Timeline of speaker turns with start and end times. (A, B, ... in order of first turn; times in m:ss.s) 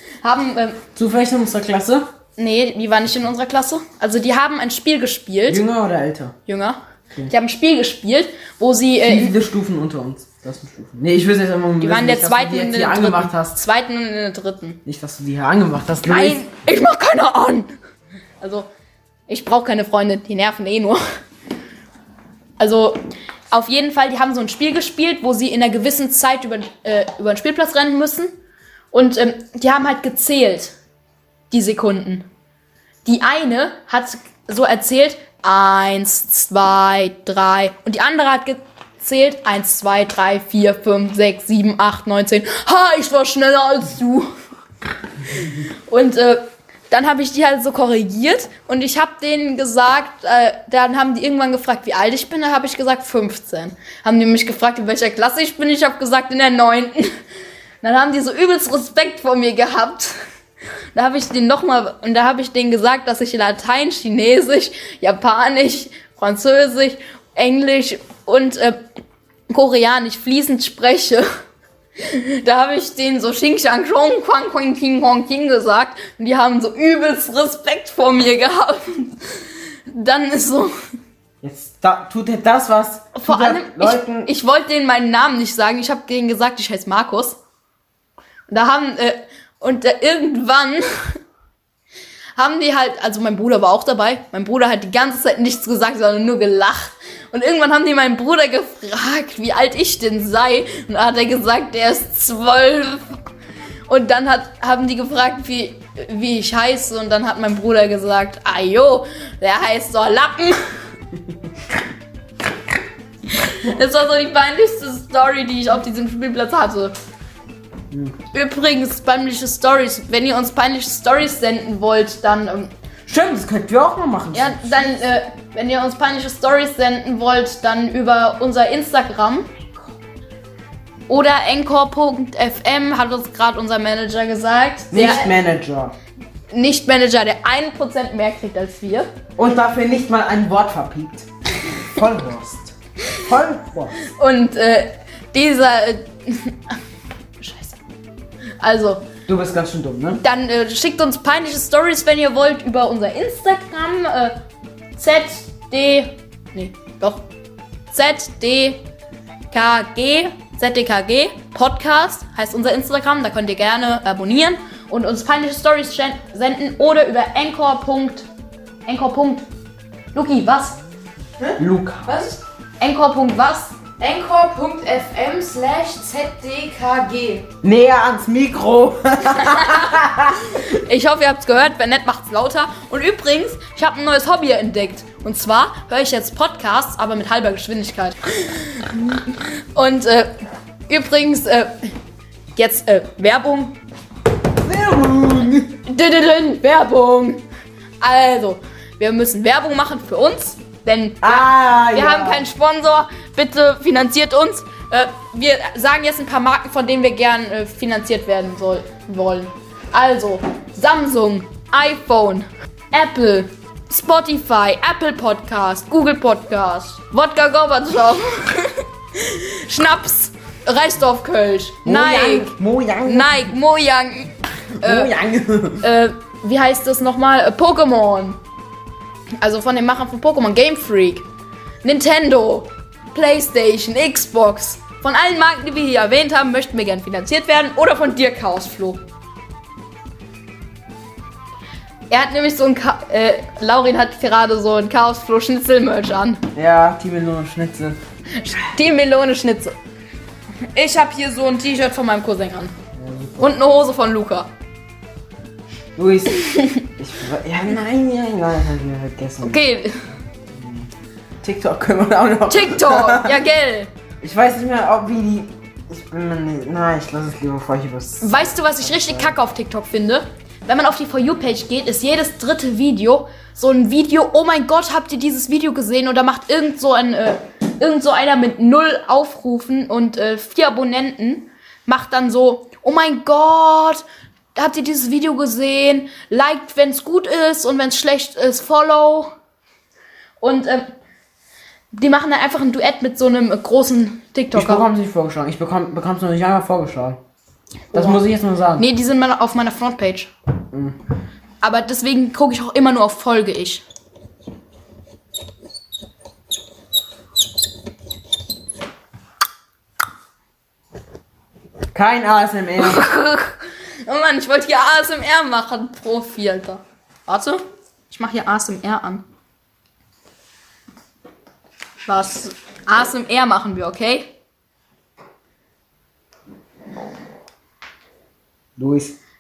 0:00.2-0:00.8 A
0:01.0-0:02.1 B
0:02.4-0:05.6 A
0:05.5-0:06.4 B
0:06.5-0:09.4 A
0:09.0-0:13.6 B
0:11.8-0:14.8 A
0:14.9-0:16.4 B
0:16.0-0:17.7 A
0:18.4-0:18.7 A
0:19.3-0:21.0 A
0:22.6-0:28.3 A
0:28.9-0:30.8 A
0:31.5-0:32.3 A
0:33.0-0:44.3 A
0:45.4-0:57.2 A
0:57.8-1:00.2 A
1:00.9-1:08.8 A
1:09.5-1:11.3 A
1:12.0-1:20.8 A
1:21.4-1:24.3 B
1:23.1-1:27.4 A
1:28.5-1:31.2 A
1:32.4-1:43.2 A
1:43.9-1:50.6 A
1:53.3-1:57.0 A
1:58.3-2:02.7 A
2:03.1-2:05.0 B
2:04.3-2:09.5 A
2:11.1-2:15.3 A
2:14.9-2:16.0 B
2:16.5-2:19.1 A
2:19.4-2:21.3 B
2:21.8-2:24.0 B
2:24.0-2:26.8 A
2:27.4-2:27.8 A
2:28.6-2:29.1 A
2:29.3-2:30.2 B
2:30.2-2:34.4 A
2:35.0-2:37.2 A
2:37.9-2:38.8 A
2:39.5-2:48.3 A
2:48.9-2:49.4 A
2:50.1-2:50.8 A
2:51.4-2:52.4 C
2:51.6-2:52.1 B
2:52.8-2:53.8 A
2:54.0-2:57.5 C
2:57.6-3:00.6 B
2:59.4-3:10.4 A
3:10.9-3:11.9 A
3:12.6-3:13.8 A
3:14.6-3:15.8 B
3:15.8-3:17.4 A
3:18.0-3:42.5 A
3:21.2-3:22.5 B
3:41.8-3:43.5 B
3:43.0-3:45.1 A
3:44.7-3:45.9 B
3:45.8-3:48.4 A
3:49.4-3:51.2 A
3:51.8-3:59.0 A
4:02.1-4:06.4 A
4:06.5-4:08.0 B
4:08.4-4:09.8 A
4:10.7-4:12.7 A
4:13.0-4:13.5 B
4:13.4-4:14.5 A
4:16.0-4:19.6 B
4:16.4-4:16.8 A
4:19.4-4:20.0 A
4:20.5-4:20.9 B
4:21.4-4:23.4 B
4:22.5-4:23.9 A
4:24.2-4:29.3 B
4:28.2-4:49.3 A
4:50.4-4:50.9 A
4:51.9-4:54.9 A
4:54.5-4:57.2 B
4:57.9-4:58.8 B
4:57.9-4:58.2 A
4:58.8-5:00.3 A
5:00.7-5:01.0 B
5:01.6-5:03.8 A
5:11.9-5:13.1 B
5:12.8-5:19.2 A
5:22.1-5:24.3 A
5:28.8-5:29.2 B